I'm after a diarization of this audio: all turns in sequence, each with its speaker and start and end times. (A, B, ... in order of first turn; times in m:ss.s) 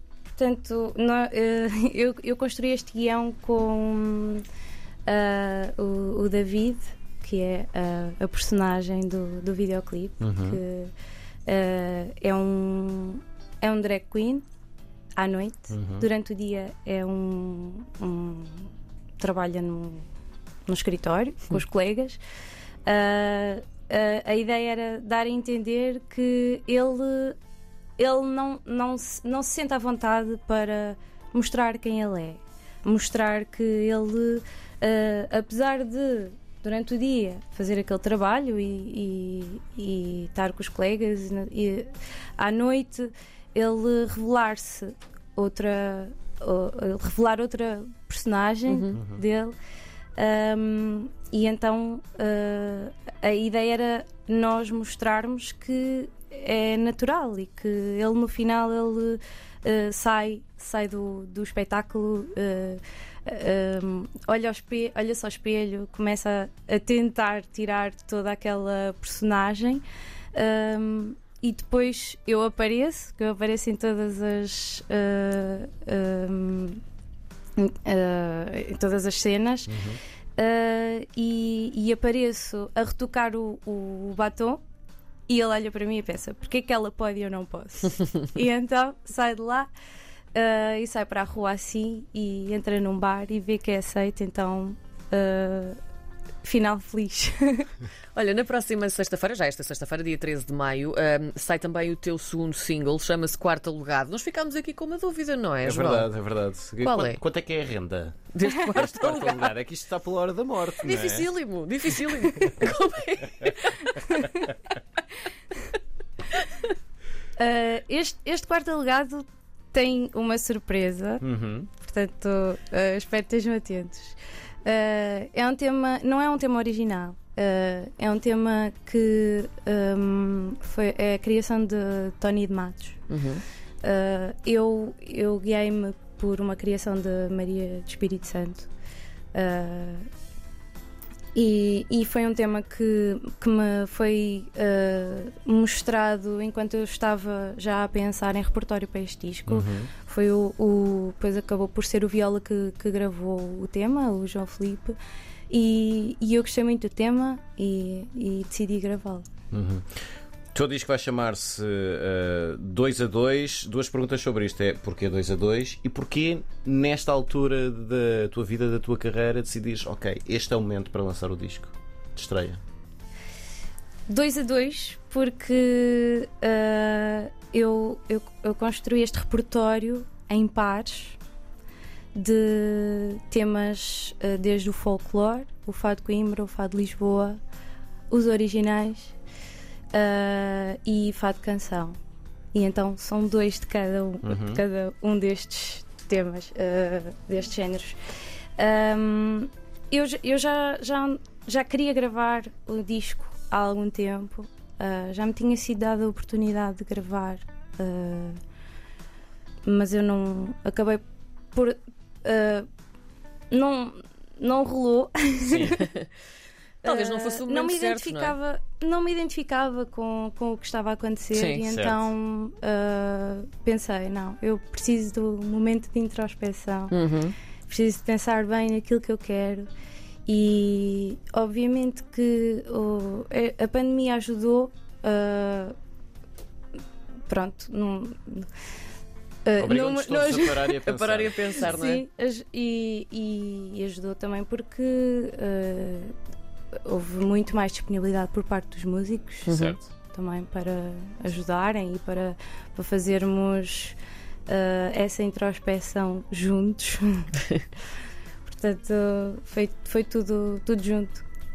0:00.4-0:04.4 A
0:05.0-0:10.9 A
0:10.2-0:10.6 B
0:11.4-0:14.4 A
0:15.2-0:20.0 A
0:15.7-0:16.1 B
0:20.6-0:22.2 A
0:22.8-0:27.4 A
0:28.0-0:49.5 A
0:48.7-0:49.0 C
0:50.2-1:09.8 A
1:10.3-1:16.8 A
1:17.6-1:19.7 A
1:19.7-1:20.0 B
1:20.4-1:24.6 A
1:25.3-1:29.7 A
1:30.3-1:35.8 A
1:36.4-1:37.7 A
1:38.1-1:46.1 C
1:45.6-1:51.3 B
1:46.8-1:47.2 C
1:48.3-1:49.5 C
1:50.8-1:54.3 C
1:57.4-2:01.2 A
2:01.2-2:01.7 B
2:01.8-2:13.0 A
2:13.1-2:13.4 C
2:13.8-2:18.7 A
2:19.3-2:20.1 A
2:21.3-2:35.0 A
2:29.5-2:29.9 B
2:35.5-2:39.3 A
2:39.5-2:39.8 B
2:40.5-2:52.6 B
2:54.1-3:01.2 A
3:02.1-3:07.4 A
3:08.1-3:09.1 A
3:09.9-3:12.0 A
3:12.5-3:18.0 A
3:14.2-3:14.6 B
3:18.6-3:28.4 A
3:29.6-3:31.0 A
3:31.5-3:32.6 A
3:33.5-3:35.8 A
3:35.4-3:35.8 B
3:35.8-3:36.0 C
3:36.8-3:38.4 C
3:36.8-3:46.9 A
3:41.3-3:41.6 C
3:41.6-3:42.1 B
3:46.9-3:47.3 C
3:47.7-3:49.7 A
3:50.2-3:55.7 A
3:57.3-3:58.5 A
3:59.4-4:00.8 A
3:59.6-4:01.6 B
4:00.8-4:02.0 C
4:01.6-4:06.1 A
4:06.8-4:17.3 A
4:09.4-4:09.8 C
4:09.5-4:09.8 B
4:18.4-4:21.2 A